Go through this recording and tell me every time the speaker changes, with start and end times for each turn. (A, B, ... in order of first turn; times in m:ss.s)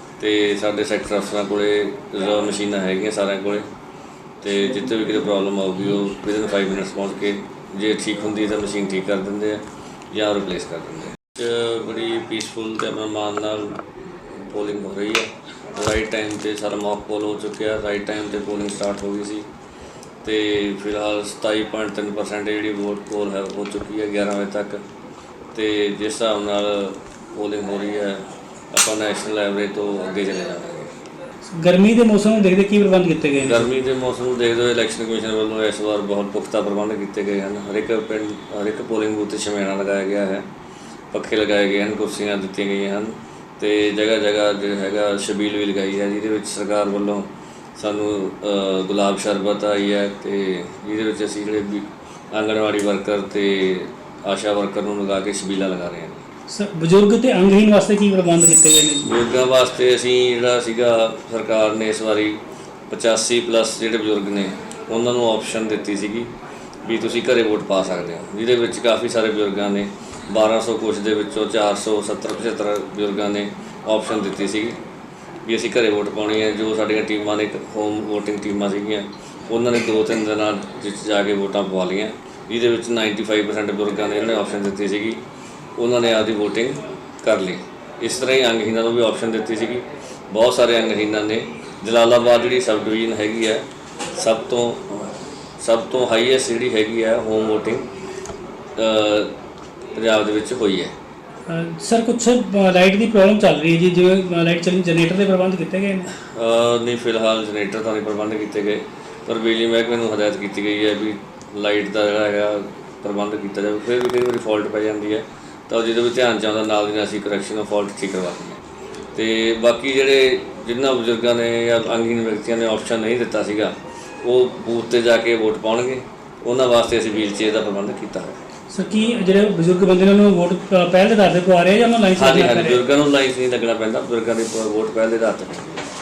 0:00.2-0:03.6 A
0:04.4-0:19.5 A
0:20.2-0:24.8 A
0:25.5-0:31.0 A
0:31.5-0:33.7 B
0:33.4-0:40.4 A
0:41.1-0:56.3 A
0:56.5-0:59.2 B
0:59.0-1:06.3 A
1:06.8-1:14.8 A
1:15.4-1:25.2 A
1:25.8-1:33.6 A
1:34.2-1:37.9 A
1:38.8-1:39.3 A
1:40.0-1:40.9 A
1:41.5-1:46.1 B
1:46.1-1:58.6 A
1:59.2-2:08.4 A
2:08.7-2:12.8 B
2:12.2-2:15.8 A